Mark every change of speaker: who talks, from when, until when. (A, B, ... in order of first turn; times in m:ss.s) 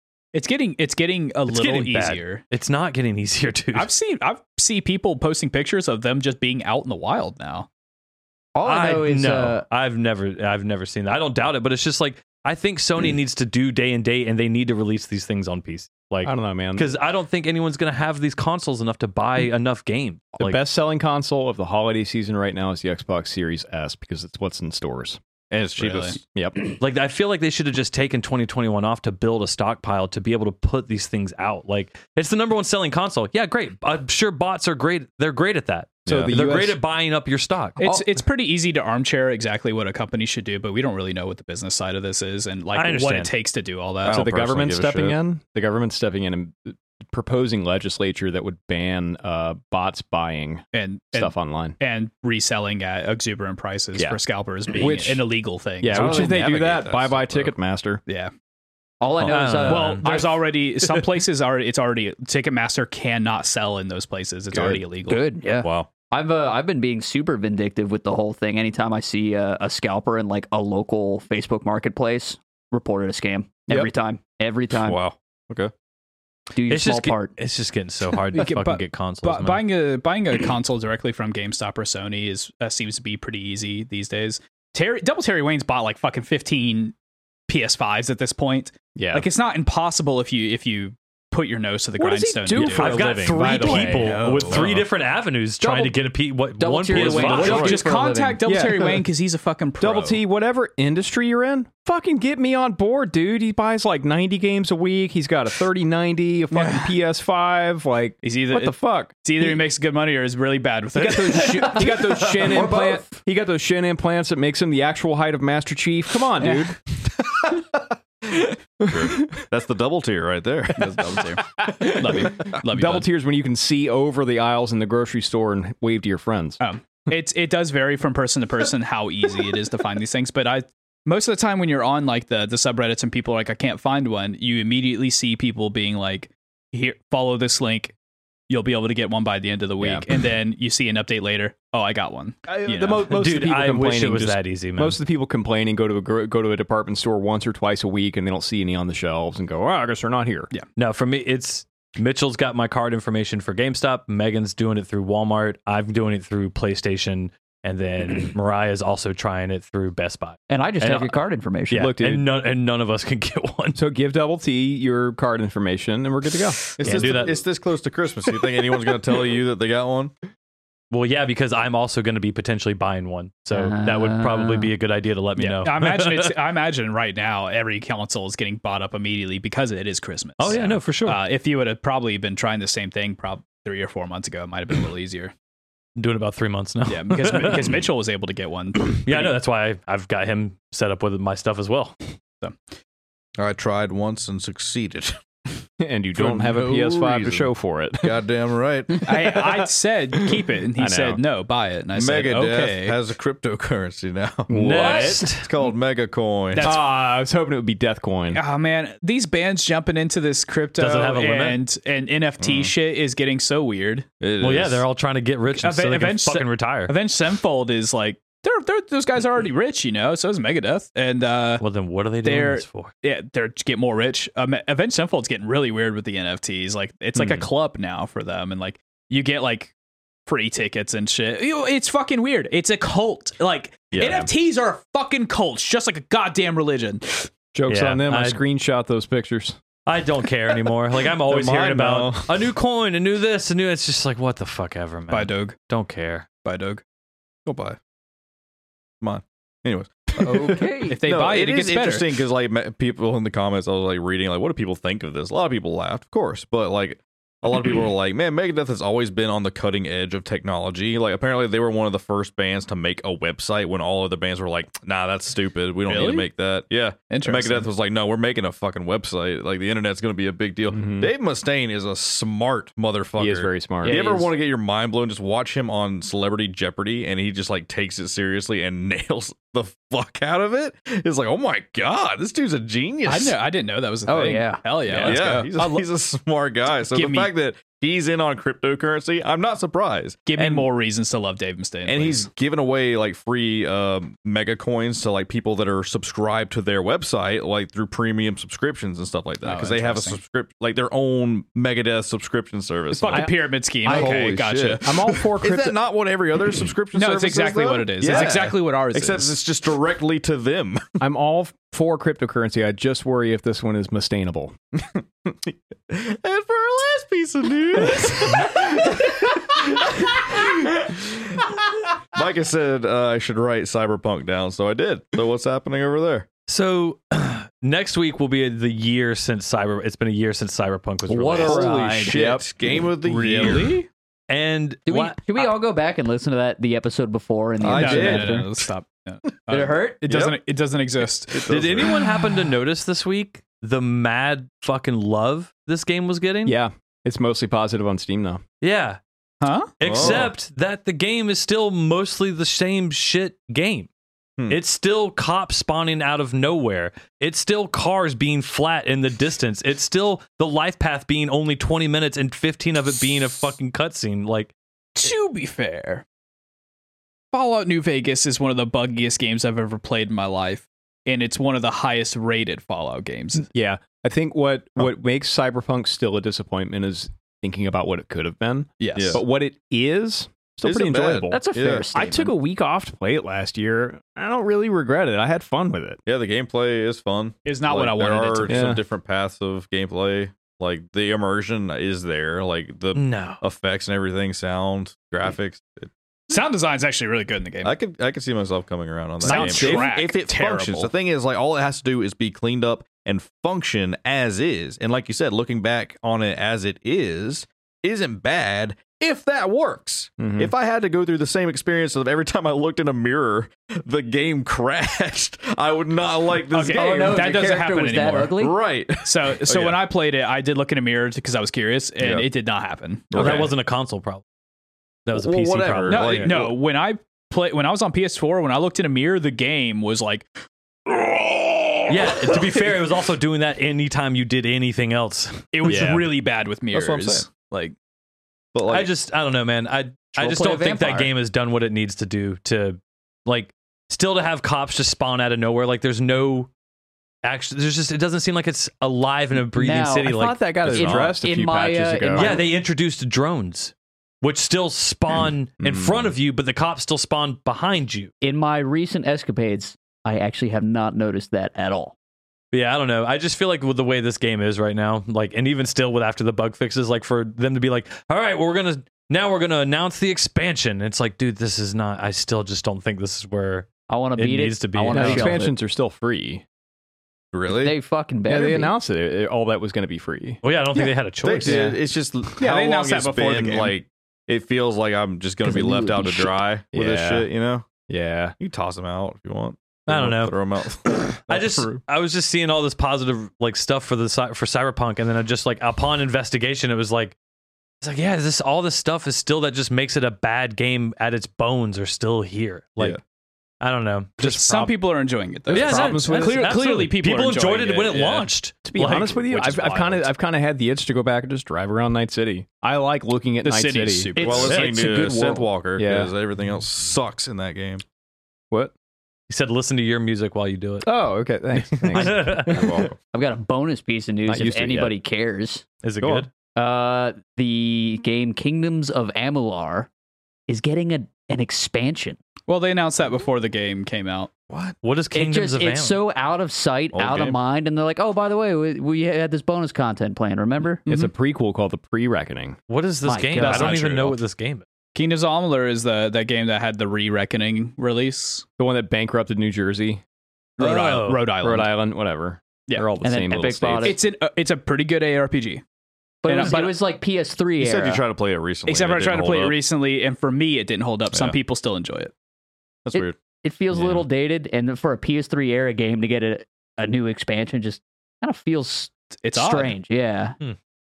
0:00.3-0:02.4 A
0:01.5-0:03.9 B
0:03.7-0:07.7 A
0:08.6-0:09.6 C
0:08.6-0:20.6 B
0:16.2-0:16.9 D
0:20.4-0:25.2 D
0:25.5-0:26.2 E
0:25.8-0:26.2 A
0:26.3-0:26.6 D
0:26.8-0:38.1 B
0:36.0-0:36.4 E
0:36.1-0:36.8 D
0:37.8-0:44.3 A
0:42.7-0:43.3 B
0:44.0-0:45.2 E
0:44.1-0:51.8 D
0:50.7-0:56.4 A
0:54.8-0:55.3 D
0:55.8-0:58.0 D
0:55.9-0:57.5 E
0:58.1-0:58.3 A
0:59.0-1:00.3 C
0:59.2-0:59.7 E
0:59.2-1:00.1 B
0:59.6-1:05.2 A
1:04.5-1:04.8 D
1:05.1-1:15.0 C
1:05.6-1:05.9 E
1:14.7-1:15.7 E
1:16.5-1:17.3 C
1:16.7-1:19.6 B
1:18.3-1:27.0 A
1:27.5-1:34.8 A
1:29.0-1:29.3 D
1:32.0-1:34.9 D
1:32.5-1:37.8 B
1:35.6-1:36.0 C
1:36.6-1:38.4 C
1:36.9-1:37.5 D
1:37.0-1:40.2 A
1:38.4-1:39.1 D
1:39.8-1:49.6 D
1:46.5-1:47.0 A
1:48.2-1:52.2 A
1:51.0-1:56.8 D
1:52.4-1:53.2 C
1:56.4-1:56.7 A
1:58.4-2:01.3 E
1:58.8-1:59.3 D
2:00.8-2:03.1 A
2:01.7-2:06.6 D
2:06.6-2:17.9 A
2:18.5-2:23.1 A
2:19.8-2:20.1 D
2:22.5-2:30.5 D
2:23.1-2:25.0 B
2:30.8-2:41.1 B
2:40.5-2:41.9 C
2:41.7-2:43.8 B
2:41.7-2:42.3 D
2:43.8-2:46.6 D
2:46.8-2:50.1 E
2:46.8-2:47.4 B
2:50.9-2:56.3 B
2:53.5-2:54.7 C
2:55.4-3:05.3 A
3:00.4-3:01.2 B
3:06.0-3:07.8 B
3:06.9-3:09.3 A
3:09.0-3:12.0 B
3:13.4-3:15.2 E
3:15.8-3:18.2 D
3:16.2-3:17.5 E
3:18.0-3:19.1 E
3:19.0-3:23.0 A
3:20.8-3:21.2 D
3:22.0-3:26.7 E
3:24.5-3:25.1 D
3:24.5-3:25.5 B
3:26.5-3:27.0 A
3:26.6-3:28.4 D
3:28.3-3:34.1 A
3:30.8-3:31.6 B
3:32.4-3:32.7 E
3:34.2-3:34.9 E
3:34.4-3:36.9 B
3:35.6-3:41.6 A
3:41.6-3:42.9 B
3:42.2-3:49.7 A
3:50.3-3:57.3 A
3:53.9-3:54.3 E
3:57.5-3:59.6 D
3:57.7-3:58.4 B
3:59.9-4:06.3 B
4:01.2-4:02.5 E
4:05.1-4:05.6 A
4:06.4-4:06.8 A
4:07.5-4:07.8 E
4:09.0-4:43.4 E
4:10.2-4:11.0 C
4:10.9-4:12.2 A
4:25.9-4:26.3 A
4:27.1-4:27.7 A
4:30.7-4:31.1 D
4:33.2-4:34.0 D
4:33.8-4:34.3 C
4:43.1-4:45.9 A
4:44.1-4:44.6 C
4:44.9-4:50.7 E
4:46.9-4:47.3 A
4:50.3-4:52.3 A
4:51.9-5:03.3 E
4:59.4-5:00.2 A
5:02.9-5:05.0 A
5:03.0-5:03.3 D
5:03.8-5:04.3 D
5:03.8-5:10.8 E
5:04.8-5:05.8 D
5:06.9-5:09.4 A
5:08.0-5:08.4 D
5:11.0-5:14.5 D
5:14.8-5:21.5 E
5:22.1-5:26.3 E
5:26.5-5:31.7 B
5:31.1-5:32.2 C
5:31.4-5:33.8 E
5:32.1-5:33.6 D
5:33.0-5:33.9 A
5:34.3-5:35.5 B
5:34.9-5:38.4 C
5:37.6-5:38.7 E
5:37.7-5:41.6 A
5:39.5-5:40.0 C
5:40.1-5:40.4 E
5:41.3-5:42.2 E
5:41.5-5:46.6 B
5:46.5-5:48.4 D
5:48.6-5:49.0 B
5:49.4-5:50.1 A
5:49.8-5:53.9 B
5:49.8-5:50.4 E
5:54.5-6:04.5 B
6:05.0-6:06.0 A
6:07.3-6:13.5 A
6:13.5-6:21.4 D
6:18.8-6:19.2 A
6:19.0-6:19.2 E
6:20.6-6:21.9 E
6:21.3-6:22.3 C
6:21.9-6:26.0 D
6:26.1-6:35.9 E
6:27.5-6:28.6 A
6:28.5-6:28.8 D
6:32.9-6:33.4 B
6:36.3-6:37.8 A
6:37.6-6:59.8 E
6:39.2-6:40.9 A
6:39.2-6:39.9 D
6:50.2-6:50.5 D
6:56.5-6:58.4 A
6:56.7-6:58.6 C
6:59.0-7:03.5 A
7:02.0-7:02.3 E
7:03.1-7:03.6 E
7:03.1-7:04.2 B
7:05.1-7:06.4 B
7:05.1-7:06.6 E
7:05.9-7:10.3 A
7:10.9-7:12.6 E
7:11.9-7:16.1 B
7:15.5-7:17.8 A
7:15.7-7:16.1 D
7:16.7-7:17.3 E
7:18.5-7:18.9 E
7:18.6-7:26.5 B
7:20.2-7:21.1 C
7:27.2-7:31.2 B
7:29.5-7:32.4 C
7:30.0-7:32.4 D
7:32.1-7:38.1 B
7:35.6-7:36.1 D
7:38.2-7:42.0 C
7:42.5-7:55.5 B
7:53.9-7:55.5 C
7:54.8-7:56.4 D
7:57.3-7:57.8 E
7:57.5-7:58.7 C
7:58.3-8:00.9 D
8:00.4-8:01.7 B
8:01.2-8:07.7 E
8:01.4-8:01.8 D
8:02.4-8:03.7 A
8:05.4-8:06.3 C
8:06.7-8:07.3 D
8:07.9-8:08.4 D
8:08.4-8:11.8 E
8:09.9-8:17.2 B
8:17.8-8:23.0 B
8:23.6-8:24.7 B
8:24.2-8:28.3 A
8:25.5-8:26.5 D
8:25.5-8:29.6 B
8:28.7-8:34.1 D
8:29.2-8:30.0 A
8:33.4-8:34.9 A
8:34.2-8:37.8 E
8:34.3-8:35.0 B
8:34.9-8:35.4 C
8:35.8-8:36.1 D
8:39.3-8:40.9 B
8:40.8-8:42.9 D
8:41.7-8:42.8 B
8:42.5-8:42.9 E
8:43.1-8:45.6 C
8:44.3-8:45.0 D
8:45.8-8:46.3 B
8:46.6-8:49.9 C
8:50.5-8:52.2 C
8:52.5-8:54.3 A
8:54.5-8:54.8 E
8:54.8-8:56.0 B
8:55.1-9:00.8 C
8:56.9-8:57.4 E
9:00.9-9:01.1 A
9:00.9-9:02.6 D
9:02.7-9:04.6 B
9:03.0-9:04.0 C
9:03.4-9:04.2 D
9:05.0-9:08.4 A
9:08.6-9:10.0 D
9:10.6-9:11.3 B
9:10.6-9:11.7 A
9:11.4-9:14.0 D
9:13.0-9:14.0 C
9:13.8-9:15.6 A
9:16.2-9:18.0 C
9:16.3-9:16.8 A
9:17.6-9:19.6 E
9:18.7-9:22.1 A
9:21.1-9:21.4 E
9:22.9-9:23.2 E
9:22.9-9:30.4 C
9:29.2-9:29.8 A